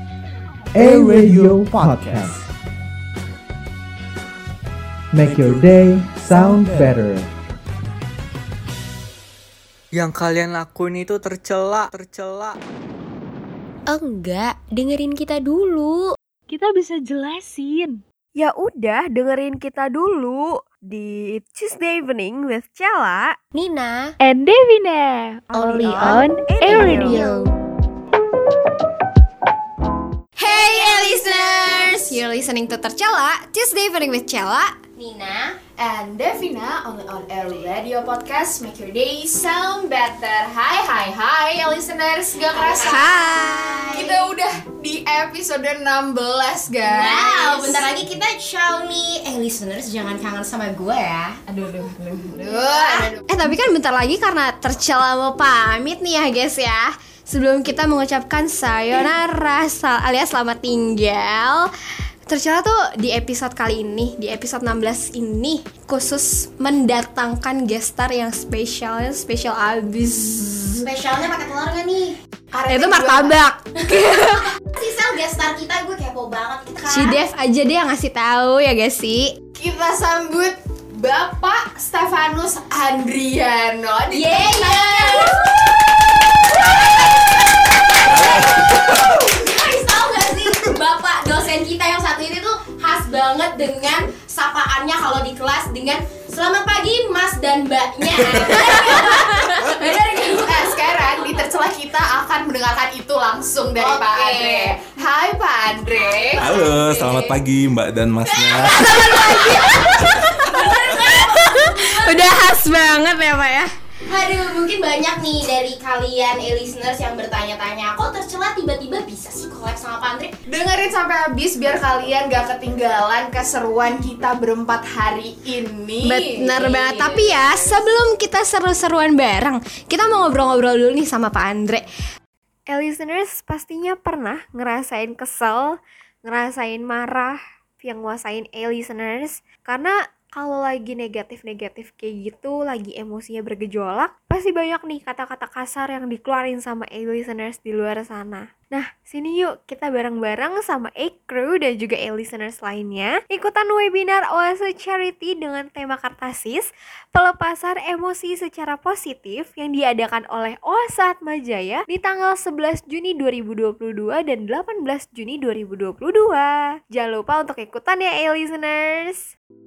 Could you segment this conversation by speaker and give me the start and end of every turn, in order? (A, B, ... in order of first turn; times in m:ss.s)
0:00.7-0:02.4 A
0:05.1-0:07.3 A
0:09.9-0:12.6 B
0:16.8-0:17.7 C
0:18.4-0:23.0 C
0:22.1-0:22.4 D
0:23.5-0:24.2 E
0:24.3-0:27.5 F
0:25.5-0:26.2 E
0:25.5-0:27.3 C
0:25.5-0:27.2 D
0:26.0-0:27.2 G
0:30.4-0:34.8 D
0:30.4-0:32.2 E
0:35.0-0:35.6 E
0:35.8-0:43.1 G
0:42.5-0:44.1 E
0:42.8-0:44.0 D
0:43.9-0:47.8 G
0:46.8-0:51.4 E
0:51.5-0:53.1 G
0:52.4-0:53.2 E
0:53.2-1:01.7 D
1:02.2-1:10.9 D
1:10.8-1:12.2 E
1:12.5-1:13.4 G
1:12.7-1:14.5 D
1:14.7-1:17.2 E
1:16.9-1:19.4 D
1:19.5-1:25.7 G
1:24.1-1:25.4 E
1:28.1-1:28.6 H
1:28.2-1:28.6 E
1:29.1-1:40.8 E
1:40.2-1:46.5 G
1:43.8-1:44.8 E
1:46.3-1:47.3 E
1:46.4-1:49.3 H
1:48.5-1:52.3 E
1:48.7-1:53.7 D
1:54.1-2:00.3 E
2:00.4-2:06.2 G
2:06.0-2:11.9 D
2:06.2-2:07.8 E
2:12.7-2:36.6 C
2:37.1-2:48.6 C
2:48.4-2:49.1 D